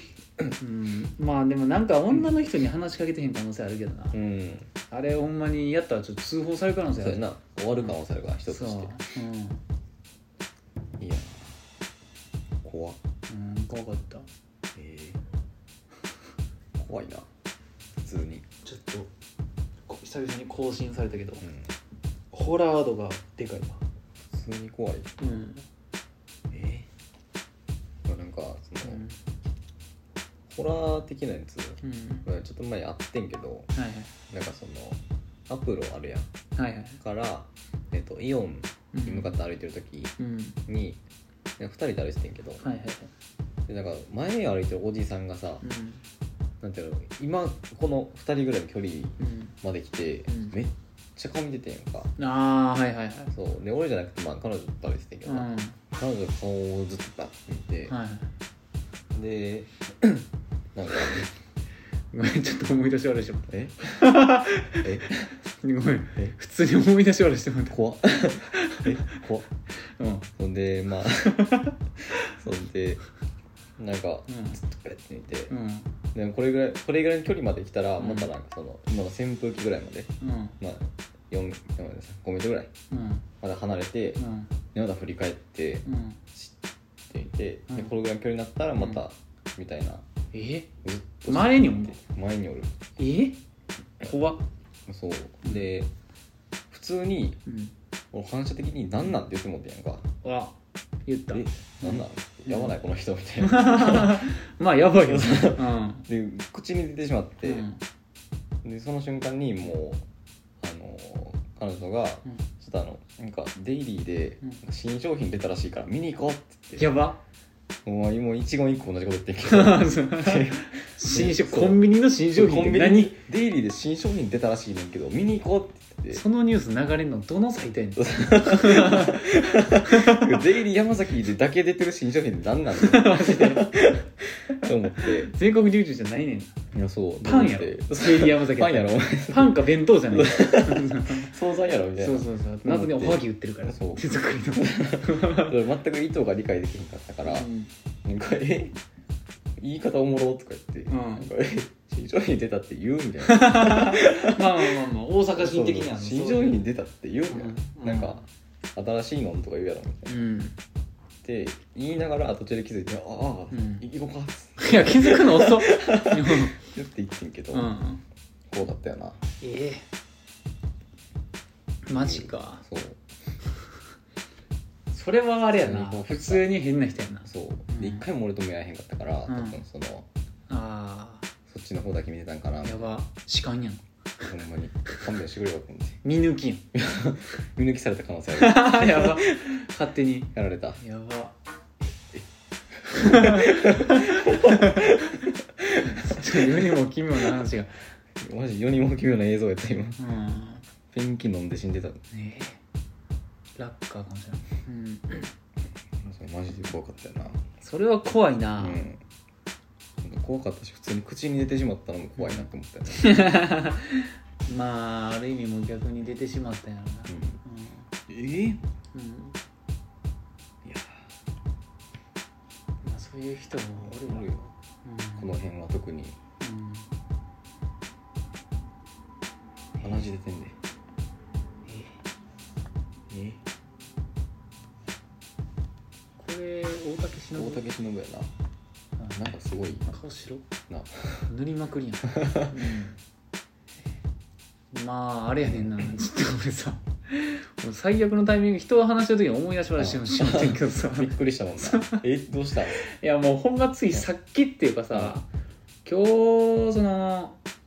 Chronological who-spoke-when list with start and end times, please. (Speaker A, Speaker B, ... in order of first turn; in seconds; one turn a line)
Speaker A: 0.6-4.2
Speaker B: 4.1-4.7
Speaker A: 4.9-7.2
Speaker B: 7.0-9.0
Speaker A: 8.5-9.6
Speaker B: 11.0-11.6
Speaker B: 12.6-13.0
Speaker A: 13.3-14.2
Speaker B: 14.7-15.2
Speaker B: 16.8-17.3
Speaker B: 18.0-18.4
Speaker A: 18.6-19.1
Speaker A: 19.9-21.4
Speaker B: 21.4-21.7
Speaker A: 22.3-23.8
Speaker B: 24.3-25.1
Speaker A: 25.2-25.6
Speaker B: 26.5-26.9
Speaker B: 28.0-29.0
Speaker A: 28.8-29.1
Speaker B: 30.5-33.7
Speaker A: 31.8-32.2
Speaker A: 33.7-34.1
Speaker B: 34.3-36.3
Speaker A: 36.5-37.0
Speaker B: 37.0-40.1
Speaker A: 38.9-39.4
Speaker A: 40.2-40.6
Speaker B: 40.7-41.0
Speaker B: 41.6-42.6
Speaker A: 42.6-43.1
Speaker B: 43.7-45.6
Speaker A: 45.6-46.0
Speaker B: 46.6-52.1
Speaker A: 49.2-49.5
Speaker A: 50.3-50.5
Speaker A: 52.2-53.3
Speaker B: 53.3-57.9
Speaker A: 55.2-55.8
Speaker A: 57.9-58.3
Speaker B: 59.1-61.3
Speaker A: 62.1-67.8
Speaker B: 63.5-63.9
Speaker B: 64.8-65.3
Speaker B: 67.7-69.5
Speaker A: 68.4-69.2
Speaker A: 69.8-70.3
Speaker B: 70.4-71.6
Speaker A: 71.2-72.3
Speaker B: 72.3-73.0
Speaker B: 73.8-75.5
Speaker A: 74.3-74.6
Speaker A: 75.5-75.9
Speaker B: 76.1-82.7
Speaker A: 78.0-78.3
Speaker A: 80.2-80.5
Speaker A: 82.9-83.3
Speaker B: 83.4-84.2
Speaker A: 84.2-84.5
Speaker B: 84.7-86.5
Speaker A: 85.8-86.2
Speaker B: 87.1-90.0
Speaker A: 90.3-90.7
Speaker B: 90.8-92.8
Speaker A: 91.3-92.0
Speaker A: 93.0-93.4
Speaker A: 94.0-94.4
Speaker B: 94.9-95.9
Speaker B: 96.7-97.4
Speaker A: 97.5-97.7
Speaker B: 98.1-100.1
Speaker A: 100.2-100.5
Speaker A: 101.1-102.7
Speaker B: 101.3-104.3
Speaker A: 103.4-106.1
Speaker B: 105.0-107.7
Speaker A: 107.4-107.8
Speaker B: 108.6-110.0
Speaker B: 110.6-116.9
Speaker A: 116.8-117.2
Speaker B: 117.8-126.2
Speaker A: 119.4-123.2
Speaker A: 126.1-130.4
Speaker B: 128.0-135.3
Speaker A: 132.8-133.7
Speaker A: 134.9-136.5
Speaker B: 136.7-147.5
Speaker A: 137.2-141.3
Speaker A: 142.0-145.5
Speaker A: 147.2-147.7
Speaker B: 148.0-148.8
Speaker B: 149.6-158.2
Speaker A: 150.9-151.3
Speaker A: 153.2-156.7
Speaker A: 157.3-158.3
Speaker B: 158.7-160.2
Speaker A: 160.1-160.6
Speaker B: 161.2-167.7
Speaker A: 163.5-163.8
Speaker A: 164.6-166.5
Speaker A: 167.5-168.0
Speaker B: 168.5-169.2
Speaker A: 169.4-169.8
Speaker A: 171.8-172.6
Speaker B: 171.9-173.0
Speaker A: 174.9-178.0
Speaker B: 175.6-176.5
Speaker B: 177.3-180.1
Speaker A: 179.3-179.6
Speaker A: 180.5-181.3
Speaker B: 181.5-182.9
Speaker A: 182.6-183.8
Speaker B: 184.2-186.0
Speaker A: 186.0-186.7
Speaker B: 186.7-189.5
Speaker A: 188.3-191.3
Speaker B: 190.3-190.8
Speaker B: 192.8-196.8
Speaker A: 192.9-195.1
Speaker A: 195.8-197.8
Speaker B: 198.2-200.0
Speaker A: 200.0-200.6
Speaker B: 200.9-202.0
Speaker A: 202.1-202.6
Speaker A: 203.6-205.3
Speaker B: 206.0-207.4
Speaker A: 207.6-208.8
Speaker B: 208.6-209.0
Speaker B: 210.0-213.3
Speaker A: 212.2-217.9
Speaker B: 217.1-217.4
Speaker B: 218.1-218.6
Speaker A: 218.9-219.4
Speaker B: 220.6-221.0
Speaker A: 222.8-225.3
Speaker B: 223.8-224.5
Speaker B: 225.2-226.2
Speaker A: 226.4-226.9
Speaker B: 229.8-230.6
Speaker A: 231.7-232.0
Speaker B: 233.1-233.4
Speaker A: 236.2-237.6
Speaker B: 237.3-238.3
Speaker A: 239.0-239.3
Speaker B: 239.1-239.9
Speaker A: 239.9-240.4
Speaker B: 240.7-241.3
Speaker A: 241.3-243.0
Speaker B: 242.1-242.7
Speaker A: 244.7-252.0
Speaker B: 245.4-245.9
Speaker B: 249.8-252.8
Speaker A: 252.7-255.3
Speaker A: 255.8-257.4